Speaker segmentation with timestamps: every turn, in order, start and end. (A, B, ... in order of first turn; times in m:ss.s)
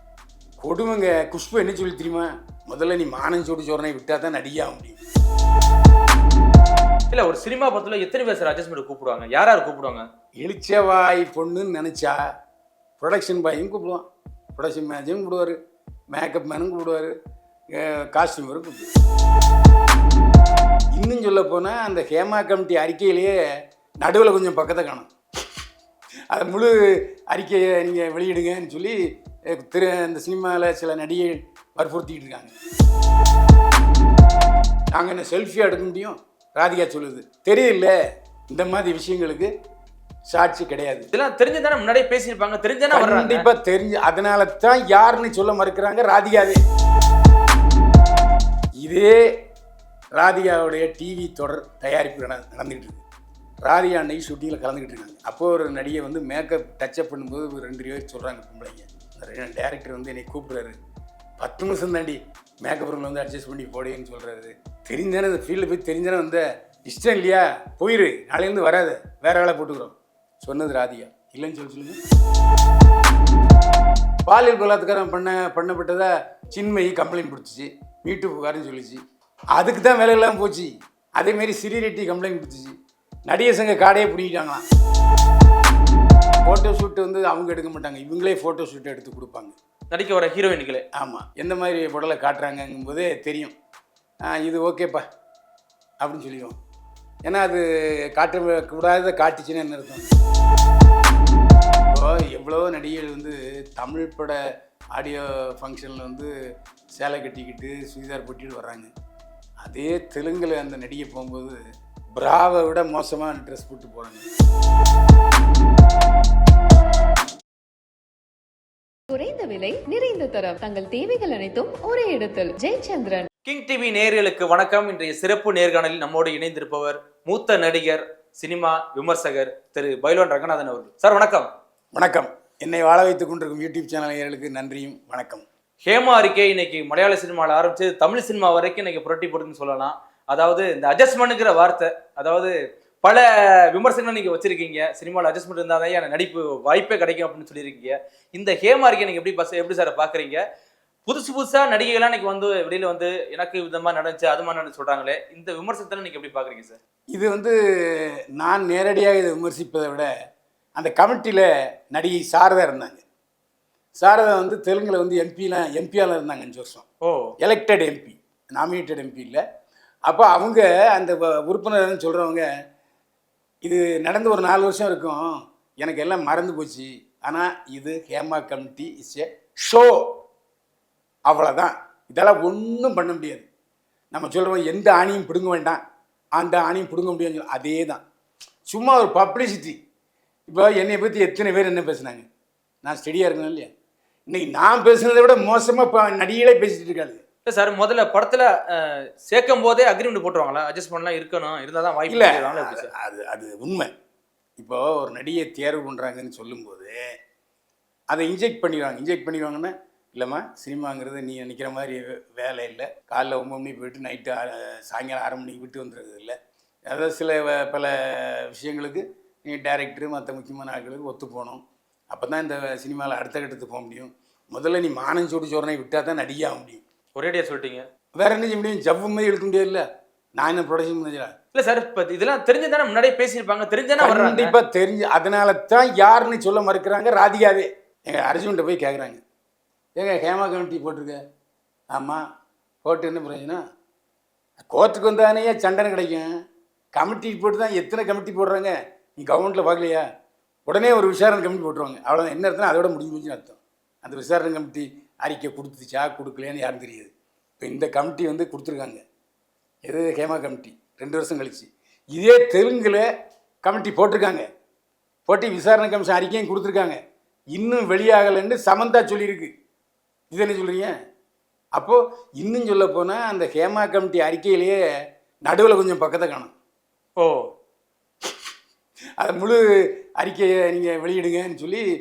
0:00.6-0:05.0 A
0:07.1-0:10.0 B
0:10.4-0:12.2 A
0:13.0-0:14.0 A
0:14.6-0:15.6 A
0:16.1-0:17.1 A
0:17.7-0:18.9 A
0:20.9-0:23.4 A
0:24.0-0:25.1 A
0:26.3-0:26.8 A
0:27.3-0:29.0 A
0:29.5-0:32.5 A
0:34.9-0:37.9 A
0:38.5-0:39.5 A
0:40.3-0:41.1 A
0:41.1-0:43.5 B
0:42.9-0:46.6 A
0:48.8-0:49.2 A
0:50.2-0:53.0 A
0:53.6-1:00.8 A
1:01.4-1:12.0 A
1:14.2-1:19.0 A
1:19.5-1:22.7 A
1:23.3-1:24.6 A
1:26.4-1:29.6 A
1:29.9-1:30.8 B
1:30.9-1:33.5 A
1:34.2-1:35.0 A
1:36.0-1:36.6 A
1:37.2-1:40.1 A
1:41.9-1:44.4 A
1:44.9-1:46.3 A
1:46.9-1:48.9 A
1:49.6-1:51.6 A
1:52.1-1:54.2 A
1:59.1-2:03.3 C
2:03.4-2:11.5 B
2:11.9-2:15.4 A
2:15.8-2:22.5 B
2:23.0-2:30.4 B
2:31.0-2:36.8 B
2:37.1-2:40.1 A
2:40.8-2:43.0 A
2:44.0-2:46.8 A
2:47.0-2:47.3 B
2:47.4-2:49.4 A
2:50.0-2:52.4 A
2:53.6-3:00.0 A
3:01.3-3:03.4 A
3:04.1-3:05.8 A
3:06.4-3:08.0 A
3:08.7-3:09.8 A
3:10.5-3:12.2 A
3:12.8-3:13.7 A
3:14.3-3:17.2 A
3:17.4-3:22.9 B
3:22.1-3:23.9 A
3:24.6-3:27.0 A
3:28.1-3:36.3 A
3:36.9-3:46.8 A
3:47.2-3:47.8 B
3:48.2-3:49.8 A
3:50.4-3:51.3 A
3:51.5-3:54.5 B
3:54.0-3:59.2 A
4:00.0-4:01.2 A
4:01.9-4:02.2 A
4:02.8-4:03.6 A
4:04.6-4:06.3 A
4:06.9-4:10.0 A
4:10.7-4:19.0 A
4:19.8-4:23.0 A
4:23.6-4:24.4 A
4:25.2-4:27.0 A
4:27.5-4:29.5 A
4:30.3-4:30.9 A
4:31.8-4:34.8 A
4:35.4-4:36.5 A
4:37.2-4:37.5 B
4:39.2-4:39.6 A
4:40.2-4:41.8 A